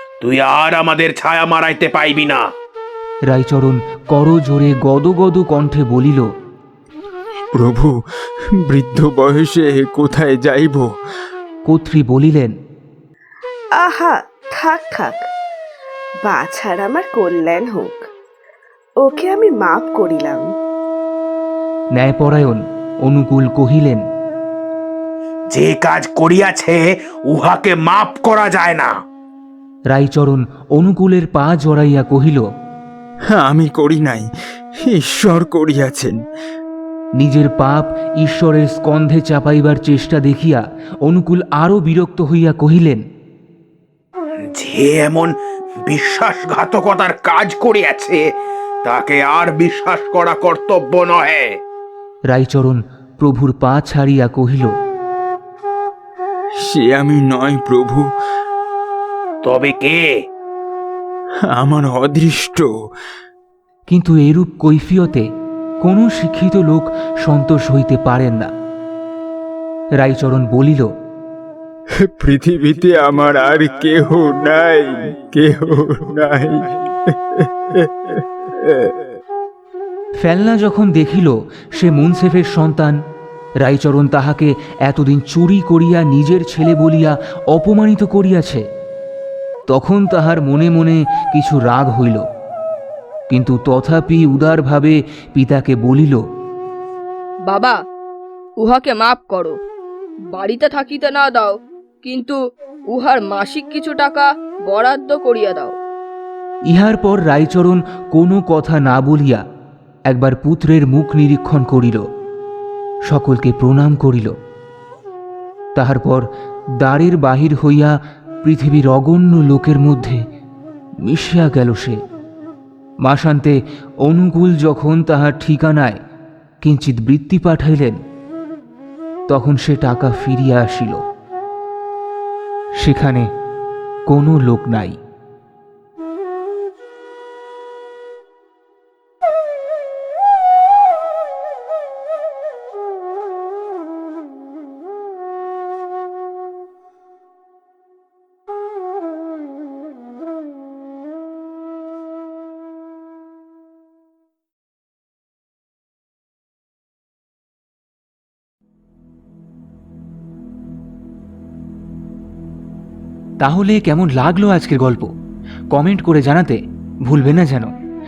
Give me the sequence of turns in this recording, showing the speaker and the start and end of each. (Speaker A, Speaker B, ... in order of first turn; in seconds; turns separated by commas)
Speaker A: 0.2-2.4, Speaker B: 3.3-6.3, Speaker C: 7.5-10.9, Speaker B: 11.7-12.5, Speaker D: 13.8-15.2, Speaker D: 16.2-18.1, Speaker D: 19.0-20.5, Speaker B: 21.9-24.0, Speaker A: 25.5-28.9, Speaker B: 29.9-32.5, Speaker C: 33.3-36.2, Speaker B: 37.2-43.0, Speaker A: 44.5-45.3, Speaker A: 45.8-48.3, Speaker A: 48.8-51.6, Speaker B: 52.3-54.7, Speaker C: 56.6-58.1, Speaker A: 59.4-60.1, Speaker C: 61.4-62.7, Speaker B: 63.9-65.2, Speaker B: 65.8-68.5, Speaker B: 70.0-70.9, Speaker C: 72.0-79.1, Speaker B: 80.2-83.0, Speaker B: 83.6-88.6, Speaker B: 89.7-92.2, Speaker B: 93.3-96.2, Speaker E: 97.5-97.8, Speaker E: 98.6-99.5, Speaker E: 100.3-102.4, Speaker E: 102.9-105.7, Speaker B: 106.7-109.4, Speaker B: 110.1-112.0, Speaker B: 113.0-114.3, Speaker B: 115.8-116.3, Speaker B: 116.8-120.2, Speaker B: 121.0-122.0, Speaker B: 123.0-126.0, Speaker B: 126.6-128.0, Speaker B: 129.3-131.0, Speaker B: 132.8-133.3, Speaker B: 134.1-135.0, Speaker B: 163.4-165.1, Speaker B: 165.7-167.7